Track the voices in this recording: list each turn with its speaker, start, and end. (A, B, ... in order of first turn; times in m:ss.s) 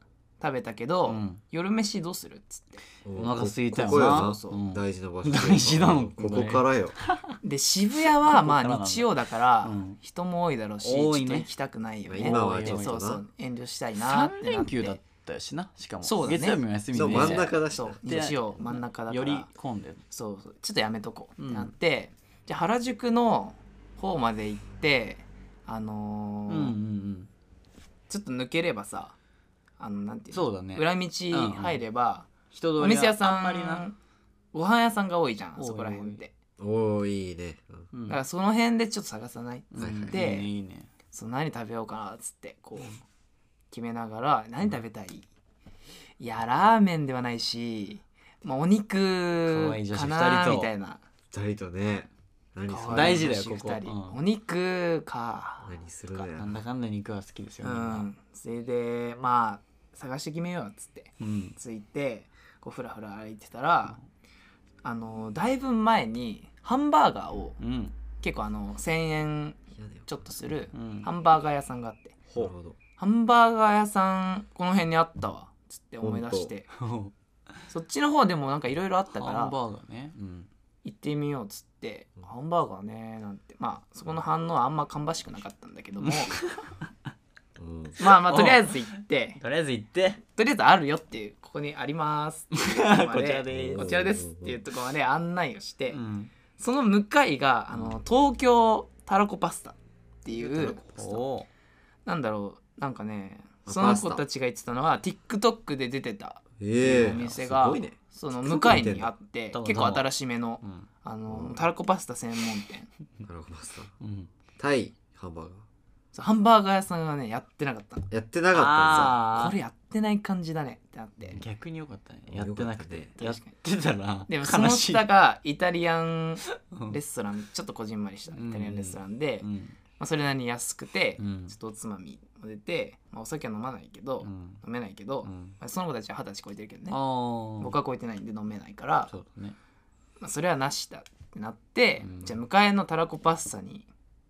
0:00.4-0:02.8 A
0:01.1-0:01.4 B
0:03.0-0:07.0 C
0:03.1-0:07.4 B
0:04.0-0:04.6 A
0:07.4-0:15.0 A
0:08.1-0:10.0 B
0:10.8-0:11.5 B
0:12.1-0:13.2 C
0:12.2-0:13.0 B
0:14.0-0:20.0 B
0:16.0-0:19.5 A
0:16.9-0:18.0 C
0:20.1-0:26.8 A
0:21.4-0:21.7 B
0:26.5-0:27.3 B
0:28.1-0:29.2 A
0:29.8-0:34.0 A
0:30.3-0:31.8 B
0:32.5-0:33.8 B
0:34.5-0:36.3 A
0:35.6-0:36.2 B
0:36.6-0:37.9 C
0:37.9-0:38.2 B
0:38.1-0:40.5 A
0:39.7-0:40.9 B
0:39.8-0:40.2 C
0:41.1-0:43.0 A
0:43.7-0:45.3 A
0:46.2-0:51.0 A
0:49.5-0:50.7 B
0:51.3-0:53.3 C
0:52.7-0:56.2 A
0:52.9-0:54.2 B
0:55.6-0:56.6 C
0:56.4-0:58.1 B
0:57.6-1:04.0 A
1:01.2-1:01.6 B
1:04.8-1:07.6 A
1:07.6-1:07.9 B
1:08.2-1:12.2 A
1:09.8-1:10.1 C
1:10.7-1:11.1 B
1:12.3-1:12.5 B
1:12.4-1:12.8 C
1:13.0-1:16.7 A
1:16.0-1:16.5 C
1:16.7-1:17.1 B
1:17.7-1:19.6 A
1:19.2-1:20.5 B
1:20.8-1:26.4 A
1:26.0-1:26.7 B
1:27.6-1:28.0 C
1:28.0-1:29.4 A
1:28.0-1:30.2 B
1:30.3-1:36.0 A
1:32.5-1:33.9 B
1:33.5-1:34.6 C
1:35.9-1:36.3 B
1:36.6-1:40.8 A
1:40.3-1:41.2 C
1:40.8-1:41.5 B
1:42.1-1:52.9 A
1:43.7-1:44.2 C
1:46.6-1:49.1 C
1:46.8-1:47.4 B
1:49.5-1:50.9 B
1:51.3-1:51.6 C
1:53.2-1:53.9 C
1:54.0-1:54.3 B
1:54.6-1:55.6 C
1:56.1-1:58.1 A
1:58.1-1:59.2 C
1:58.5-1:59.6 B
1:58.9-2:01.4 A
2:01.3-2:05.1 B
2:02.3-2:03.1 C
2:03.2-2:03.5 A
2:04.3-2:17.0 A
2:06.7-2:07.0 B
2:08.3-2:09.8 B
2:11.2-2:11.6 B
2:14.2-2:14.6 B
2:15.2-2:15.6 B
2:16.9-2:17.8 B
2:17.6-2:19.1 A
2:19.1-2:19.6 B
2:20.2-2:23.9 A
2:22.0-2:22.4 B